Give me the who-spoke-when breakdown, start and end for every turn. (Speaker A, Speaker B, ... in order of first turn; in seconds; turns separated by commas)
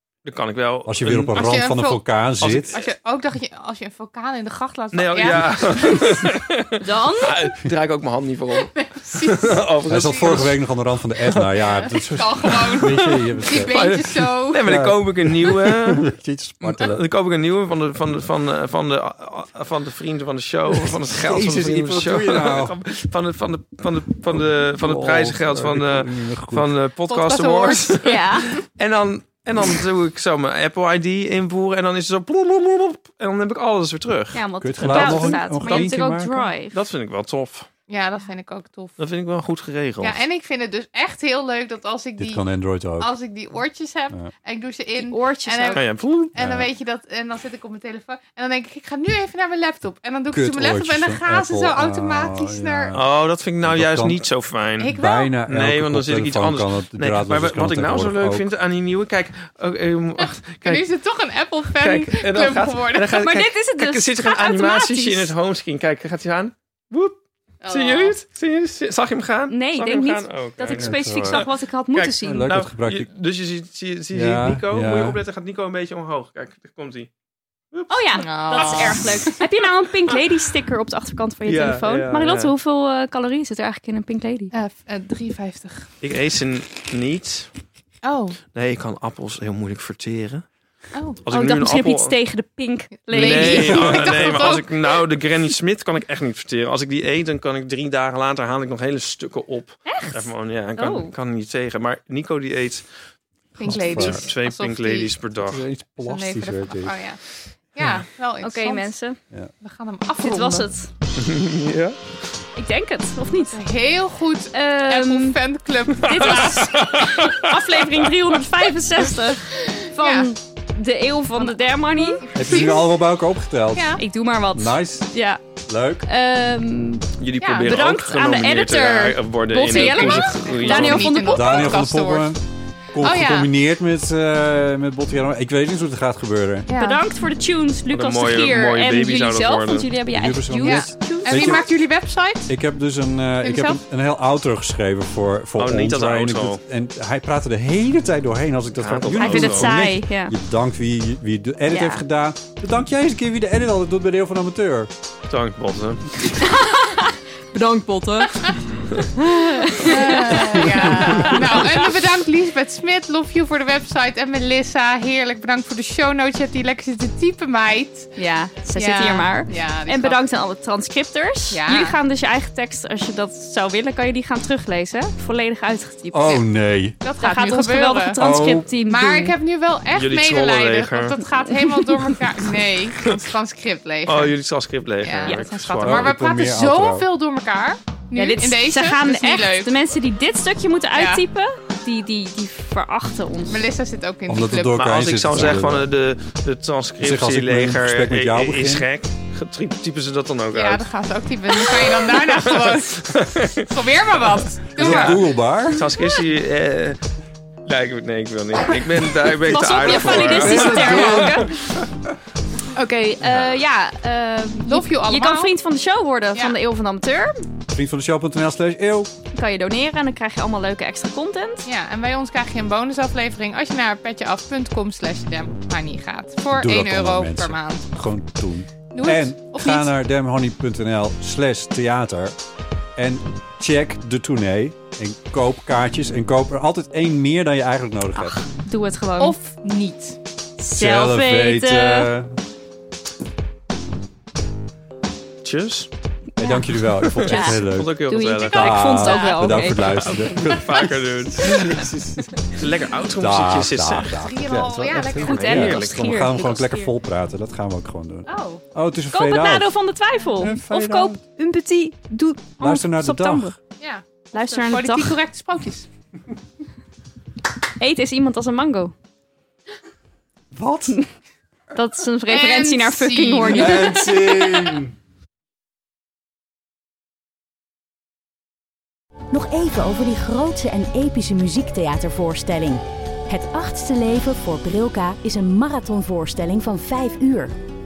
Speaker A: 0.2-1.4, Speaker B: 0.8-2.7, Speaker C: 1.3-2.0, Speaker A: 2.4-2.9, Speaker C: 2.7-6.2, Speaker A: 4.9-10.6, Speaker D: 6.8-7.4, Speaker C: 8.8-10.3, Speaker B: 9.8-13.8, Speaker A: 11.2-11.6, Speaker C: 11.7-14.6, Speaker A: 13.6-16.1, Speaker B: 14.6-17.0, Speaker A: 16.6-35.9, Speaker B: 20.8-22.8, Speaker B: 24.3-26.7, Speaker C: 27.1-28.1, Speaker D: 28.0-28.6, Speaker D: 34.3-36.8, Speaker B: 34.6-36.5, Speaker A: 36.7-37.7, Speaker C: 37.9-38.9, Speaker A: 39.0-40.2, Speaker C: 40.0-42.4, Speaker B: 42.2-43.1, Speaker C: 43.0-53.0, Speaker D: 45.0-45.8, Speaker A: 45.7-46.3, Speaker B: 46.4-46.7, Speaker B: 50.3-53.1, Speaker A: 52.9-55.0, Speaker B: 53.6-54.2, Speaker C: 54.8-55.3, Speaker B: 55.0-58.5, Speaker A: 55.5-60.9, Speaker C: 60.2-63.2, Speaker A: 61.8-77.1, Speaker D: 63.2-65.3, Speaker C: 67.6-68.2, Speaker D: 69.5-72.5, Speaker B: 70.7-71.4, Speaker B: 72.2-73.1, Speaker B: 74.1-75.2, Speaker A: 77.7-79.0, Speaker D: 77.9-84.5, Speaker C: 78.1-79.4, Speaker A: 81.5-82.5, Speaker C: 84.5-85.9, Speaker A: 86.0-87.5, Speaker C: 88.0-88.4, Speaker A: 88.5-90.5, Speaker C: 90.9-91.2, Speaker A: 91.2-92.2, Speaker D: 91.3-94.6, Speaker C: 93.1-94.9, Speaker A: 93.1-102.9, Speaker D: 99.8-101.1, Speaker C: 103.6-105.1, Speaker B: 103.6-104.2, Speaker A: 103.7-105.6, Speaker B: 105.4-107.0, Speaker C: 106.0-107.2, Speaker C: 107.7-108.9, Speaker D: 108.4-109.2, Speaker C: 109.6-110.7, Speaker D: 110.2-110.9, Speaker A: 111.2-112.0, Speaker D: 112.5-113.6, Speaker C: 113.5-116.8, Speaker D: 114.5-115.4, Speaker D: 116.0-122.6, Speaker A: 116.0-118.1, Speaker C: 119.5-120.3, Speaker C: 121.4-123.0, Speaker B: 122.3-124.0, Speaker C: 123.7-124.0, Speaker D: 124.0-125.4, Speaker B: 124.5-125.1, Speaker B: 125.7-126.0, Speaker D: 126.0-127.1, Speaker A: 127.2-131.1, Speaker C: 127.4-127.7, Speaker D: 127.6-131.8, Speaker C: 129.7-132.3, Speaker B: 131.2-136.7, Speaker C: 133.0-133.5, Speaker C: 136.7-137.0, Speaker D: 136.7-141.7, Speaker A: 137.9-139.9, Speaker B: 140.1-141.7, Speaker C: 140.6-142.5, Speaker B: 142.5-154.9, Speaker C: 143.4-143.8, Speaker A: 145.6-146.6, Speaker A: 148.8-149.7, Speaker D: 149.2-150.3, Speaker D: 151.7-152.0, Speaker A: 155.3-156.1, Speaker D: 156.2-161.8, Speaker C: 159.7-168.1, Speaker B: 160.5-160.8, Speaker D: 168.2-176.4, Speaker C: 168.7-170.4, Speaker C: 171.5-172.0, Speaker B: 176.1-177.0, Speaker C: 177.0-178.2, Speaker D: 177.1-179.3, Speaker B: 178.2-178.7, Speaker C: 178.7-184.3, Speaker A: 179.9-181.2, Speaker D: 181.4-182.2, Speaker A: 184.1-186.1, Speaker C: 185.0-189.8, Speaker B: 185.8-187.1, Speaker D: 188.1-193.6, Speaker C: 190.9-191.2, Speaker C: 193.5-194.9, Speaker B: 194.3-195.9, Speaker A: 194.7-200.9, Speaker B: 197.0-198.9, Speaker C: 200.5-205.2, Speaker A: 201.7-203.7, Speaker B: 204.8-205.9, Speaker A: 204.8-207.0, Speaker A: 207.6-211.3, Speaker D: 209.4-211.7, Speaker C: 209.8-211.2, Speaker B: 210.2-211.5, Speaker D: 212.7-217.5, Speaker A: 213.2-213.6, Speaker C: 214.7-215.5, Speaker B: 217.7-219.1, Speaker D: 219.3-221.7, Speaker C: 221.6-227.9, Speaker B: 226.5-232.4, Speaker C: 228.9-229.9, Speaker B: 232.9-238.3, Speaker D: 238.1-239.4, Speaker C: 239.2-240.2, Speaker D: 240.6-242.1, Speaker B: 240.7-242.4, Speaker A: 245.4-245.9, Speaker B: 246.4-252.4, Speaker A: 246.9-248.9, Speaker D: 247.2-250.2, Speaker C: 248.8-250.4, Speaker A: 249.8-251.9, Speaker A: 252.5-254.1, Speaker B: 253.2-259.8, Speaker C: 254.2-255.7, Speaker A: 255.2-256.2, Speaker D: 255.2-256.9, Speaker C: 258.3-258.6, Speaker D: 259.1-263.6, Speaker B: 260.4-261.2, Speaker B: 262.6-263.6, Speaker C: 263.8-265.9, Speaker D: 264.3-265.2, Speaker D: 267.8-268.9, Speaker B: 270.5-271.0, Speaker D: 271.7-274.6, Speaker C: 272.3-274.1, Speaker B: 273.5-274.9, Speaker E: 279.3-287.5